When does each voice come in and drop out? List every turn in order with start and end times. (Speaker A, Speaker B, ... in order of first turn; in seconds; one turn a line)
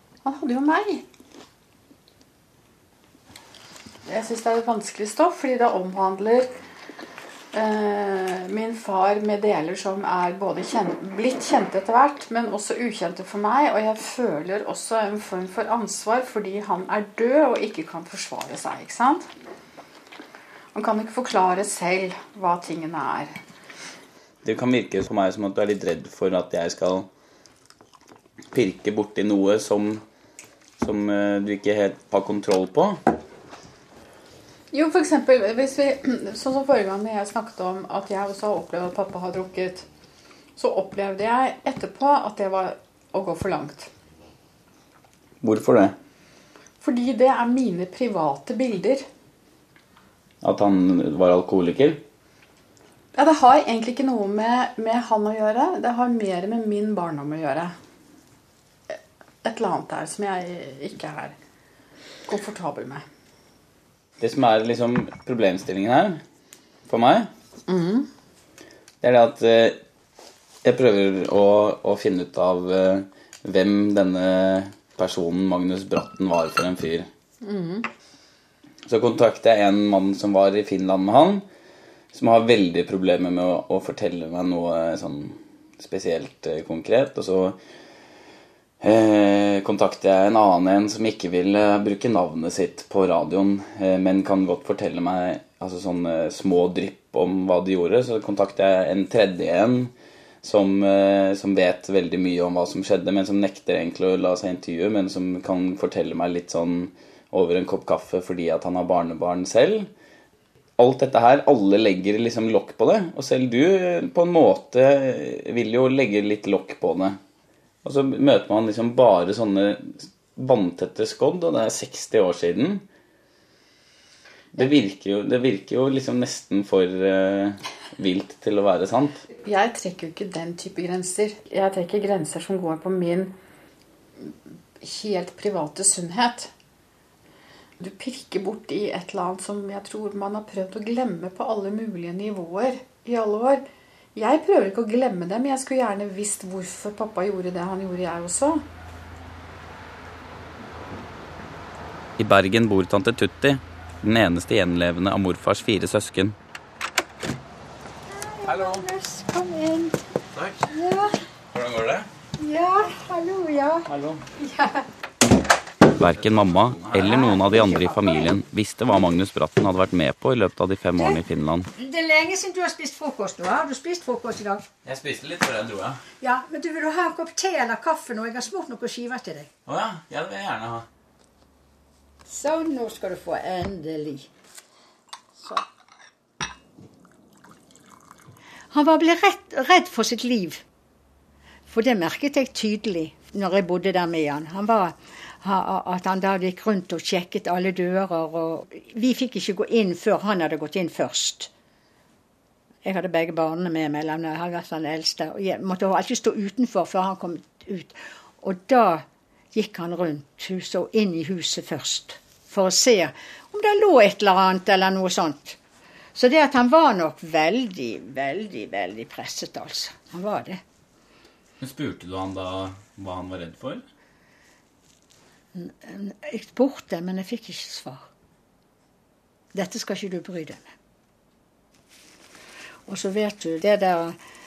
Speaker A: 0.2-1.0
Speaker A: 4.0-6.5
Speaker A: 7.5-19.2
Speaker A: 20.7-23.4
Speaker B: 24.4-27.1
Speaker B: 28.5-30.0
Speaker B: 30.8-33.0
Speaker A: 34.7-39.9
Speaker A: 40.6-43.9
Speaker B: 45.4-46.0
Speaker A: 46.8-49.0
Speaker B: 50.4-52.0
Speaker A: 53.1-57.7
Speaker A: 58.9-61.4
Speaker A: 62.3-63.0
Speaker B: 64.2-66.2
Speaker B: 66.8-67.3
Speaker A: 67.7-68.1
Speaker B: 69.0-69.8
Speaker B: 70.6-77.1
Speaker A: 77.4-77.9
Speaker B: 78.8-81.4
Speaker B: 82.1-87.6
Speaker B: 88.8-109.9
Speaker B: 110.8-117.2
Speaker B: 117.8-122.8
Speaker B: 124.5-129.2
Speaker A: 129.4-133.3
Speaker A: 134.8-136.5
Speaker A: 137.8-143.6
Speaker A: 144.1-148.6
Speaker B: 152.2-156.3
Speaker C: 158.1-160.0
Speaker B: 158.4-158.8
Speaker B: 160.3-160.7
Speaker C: 160.7-161.2
Speaker B: 161.5-162.1
Speaker C: 162.4-164.9
Speaker B: 163.9-164.2
Speaker B: 165.9-171.7
Speaker C: 166.9-168.3
Speaker C: 171.7-174.6
Speaker B: 174.8-176.0
Speaker C: 176.2-179.5
Speaker B: 179.7-180.8
Speaker C: 182.2-184.3
Speaker C: 188.7-190.6
Speaker C: 191.7-201.5
Speaker C: 202.8-215.6
Speaker C: 216.1-220.6
Speaker B: 221.6-223.8
Speaker C: 225.5-228.0
Speaker C: 229.5-230.7
Speaker C: 232.9-234.2